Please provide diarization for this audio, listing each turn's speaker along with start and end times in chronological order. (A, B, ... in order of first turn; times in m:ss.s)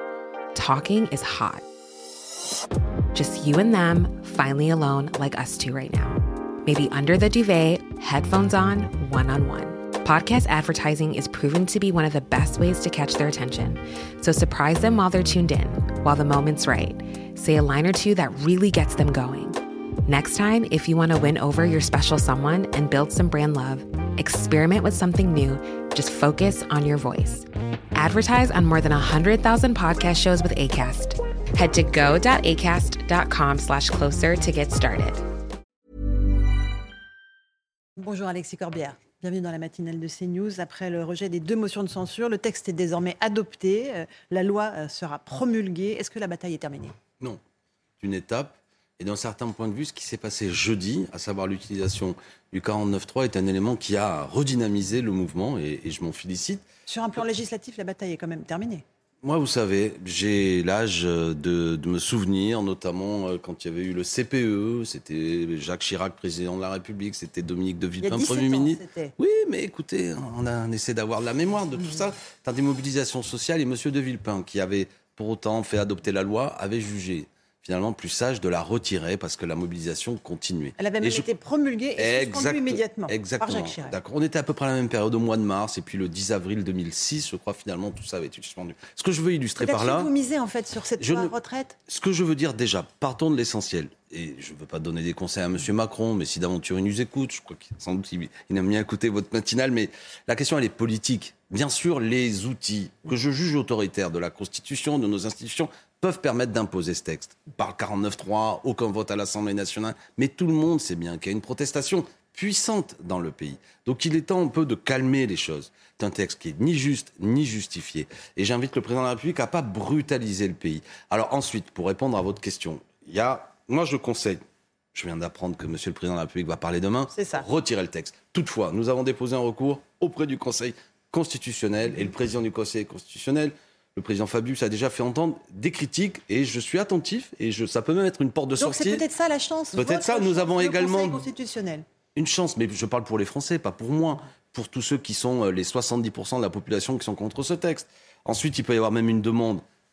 0:00.6-0:01.6 A
0:03.1-0:35.2 A
0:38.0-0:47.0 B
0:48.0-0:56.6 C
0:56.9-0:58.8 B
0:59.2-1:21.3 C
1:08.0-1:09.1 B
1:20.8-1:24.0 B
1:22.0-1:30.1 C
1:29.6-1:31.8 B
1:31.0-1:31.3 C
1:31.9-2:04.4 C
2:04.9-2:19.0 C
2:07.1-2:07.5 B
2:18.6-2:21.8 B
2:19.7-2:21.3 C
2:22.2-2:29.6 C